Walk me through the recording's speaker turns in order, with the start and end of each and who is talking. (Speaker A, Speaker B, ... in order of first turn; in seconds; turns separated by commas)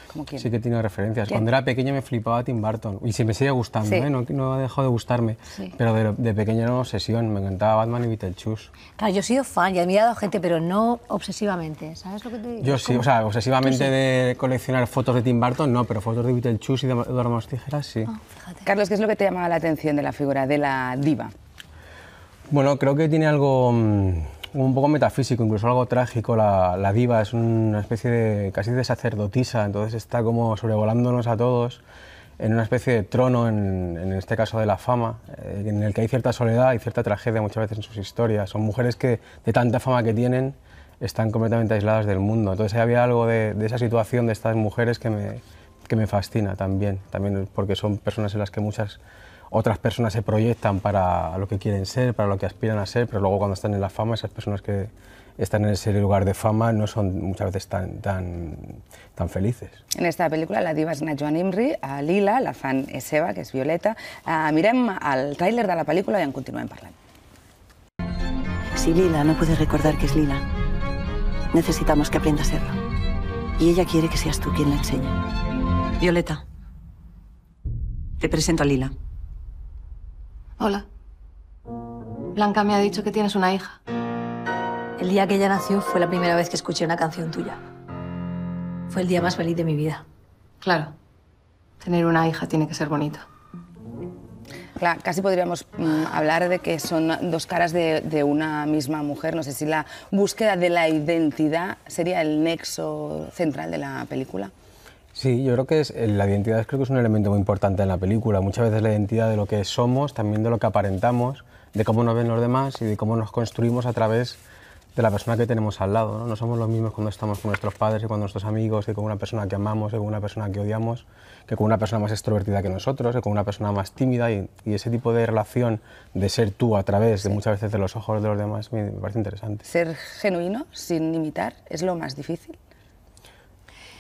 Speaker A: 0.1-0.5, Speaker B: 0.4-8.7, Speaker C: 9.0-13.1, Speaker B: 12.6-18.1, Speaker C: 13.6-13.9, Speaker C: 18.1-18.7, Speaker A: 18.7-21.3, Speaker B: 22.5-31.8, Speaker B: 32.4-49.0, Speaker B: 49.5-59.8, Speaker A: 59.9-67.0, Speaker D: 68.8-70.5, Speaker D: 71.5-72.8, Speaker D: 73.6-75.2, Speaker D: 76.0-76.4, Speaker D: 78.2-79.0, Speaker E: 80.6-80.8, Speaker E: 82.3-83.8, Speaker C: 85.0-87.6, Speaker C: 88.9-90.0, Speaker E: 90.6-90.9, Speaker E: 91.8-93.2, Speaker A: 94.8-104.5, Speaker B: 105.2-114.4, Speaker B: 115.0-129.7, Speaker A: 129.7-132.6